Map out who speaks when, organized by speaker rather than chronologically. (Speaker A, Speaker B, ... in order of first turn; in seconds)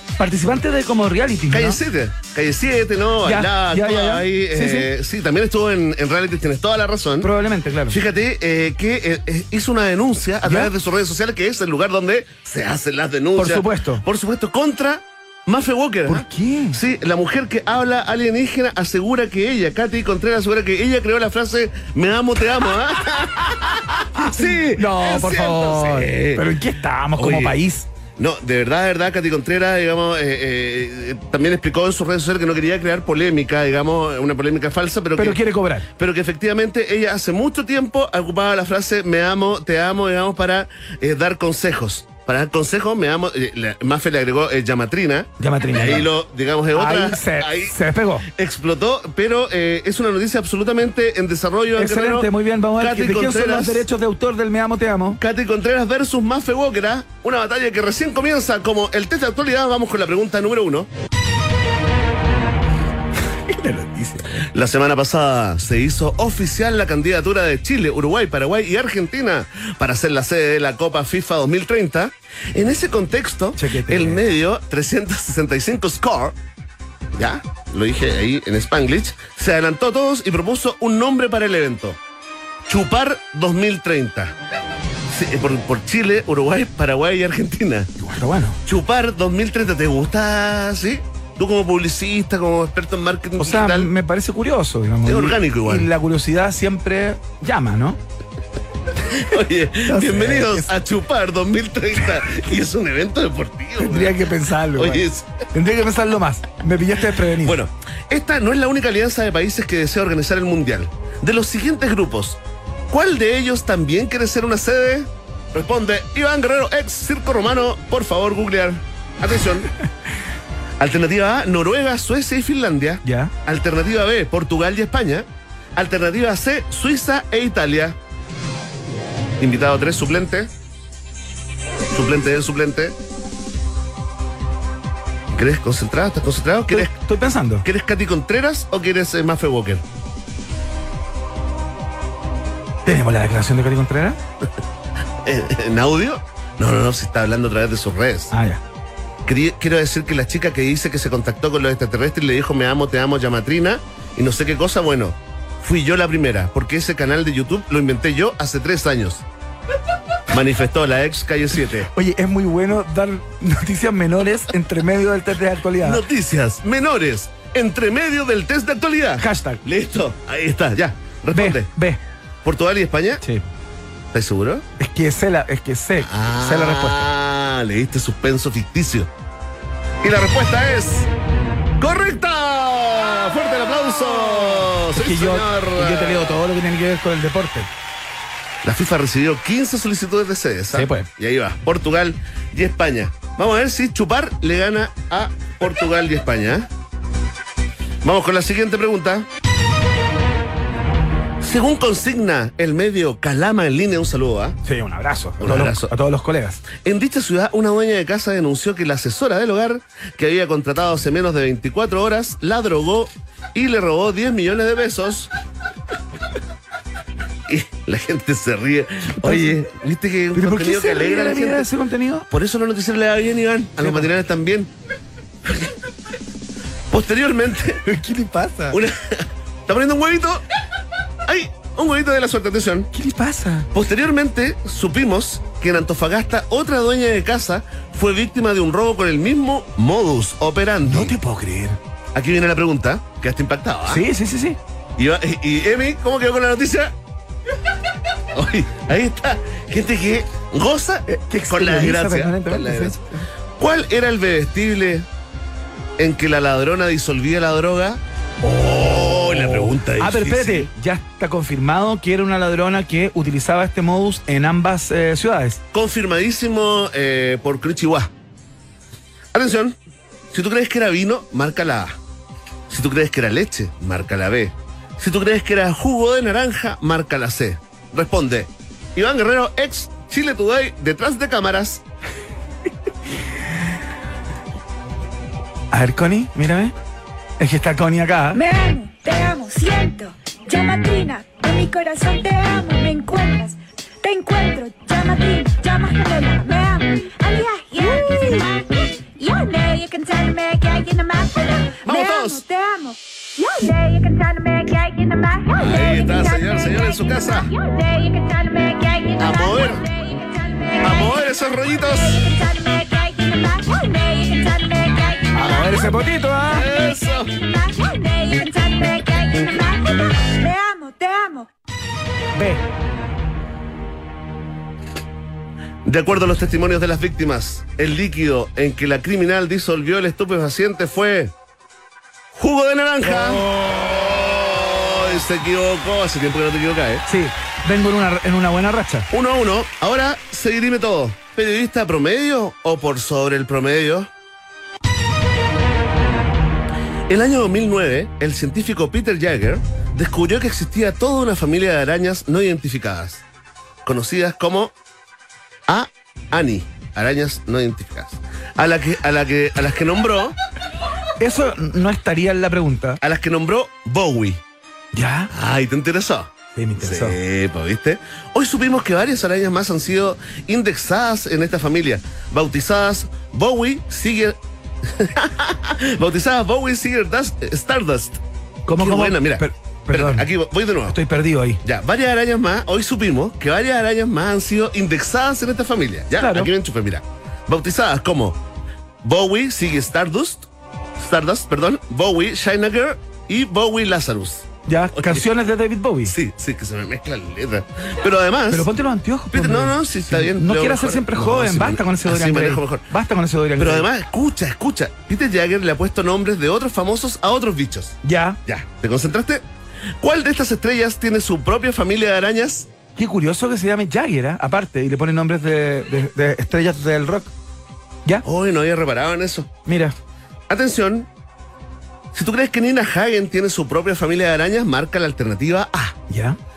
Speaker A: 0.2-1.8, 3.2-4.9, 7.2-8.0, 10.4-10.7, 13.4-14.0, 16.1-16.8, 24.2-27.9, 35.2-35.9, 45.4-46.1, 46.7-48.3, 51.8-55.2, 63.5-64.5, 73.6-74.2, 88.0-88.6, 93.4-98.0, 99.9-100.7, 103.8-107.6, 123.0-123.3, 136.7-137.7, 142.8-144.2, 148.3-148.6, 161.9-166.0, 169.2-169.6, 171.3-172.0, 174.8-177.1, 184.9-187.7, 190.7-191.1, 204.7-206.6, 219.2-219.6, 220.3-222.3, 223.8-224.1, 227.8-228.8, 232.9-233.7, 240.9-241.8, 243.9-244.6, 251.1-253.0, 259.2-265.6, 285.7-286.7, 287.4-288.4, 315.4-316.7, 322.4-322.6, 333.1-333.7, 337.1-339.1, 361.2-363.0, 364.9-365.3, 366.6-367.2, 378.7-380.3, 380.9-381.6, 386.2-386.5, 394.7-396.1, 398.5-403.9, 408.0-408.4, 413.0-417.3, 419.7-419.9, 426.1-426.4
Speaker B: 1.5-7.3, 7.9-26.5, 27.2-27.6, 28.2-35.4, 35.9-53.9, 55.2-60.9, 64.5-76.4, 77.1-82.0, 82.7-84.3, 85.1-87.9, 88.7-93.9, 95.0-95.9, 99.1-105.5, 107.4-119.7, 120.8-128.0, 129.4-130.5, 131.9-132.9, 135.3-136.9, 137.6-139.8, 145.2-148.3, 149.3-159.2, 160.3-161.9, 165.8-171.7, 172.4-173.2, 174.1-174.7, 176.0-179.1, 180.0-181.1, 181.8-186.4, 188.6-196.7, 198.0-199.3, 201.4-204.6, 205.4-205.9, 206.7-215.3, 217.5-221.7, 222.3-224.7, 225.4-225.7, 226.9-227.8, 228.7-230.4, 231.3-232.9, 233.7-241.2, 242.2-244.1, 245.0-246.9, 248.3-253.0, 253.6-255.1, 256.0-260.7, 265.7-268.1, 269.3-269.8, 270.3-272.0, 272.7-281.8, 301.9-302.4, 305.6-307.5, 309.2-309.8, 310.8-312.2, 316.5-317.3, 325.9-331.3, 332.3-337.0, 339.1-344.1, 347.1-353.2, 353.9-354.7, 355.7-360.4, 363.0-364.4, 365.3-378.2, 378.8-381.0, 381.6-388.4, 389.0-395.3, 396.1-398.7, 399.3-402.9, 403.6-409.4, 410.0-412.7, 418.2-419.5, 420.5-421.1, 422.1-426.0
Speaker C: 288.3-316.0, 316.6-321.5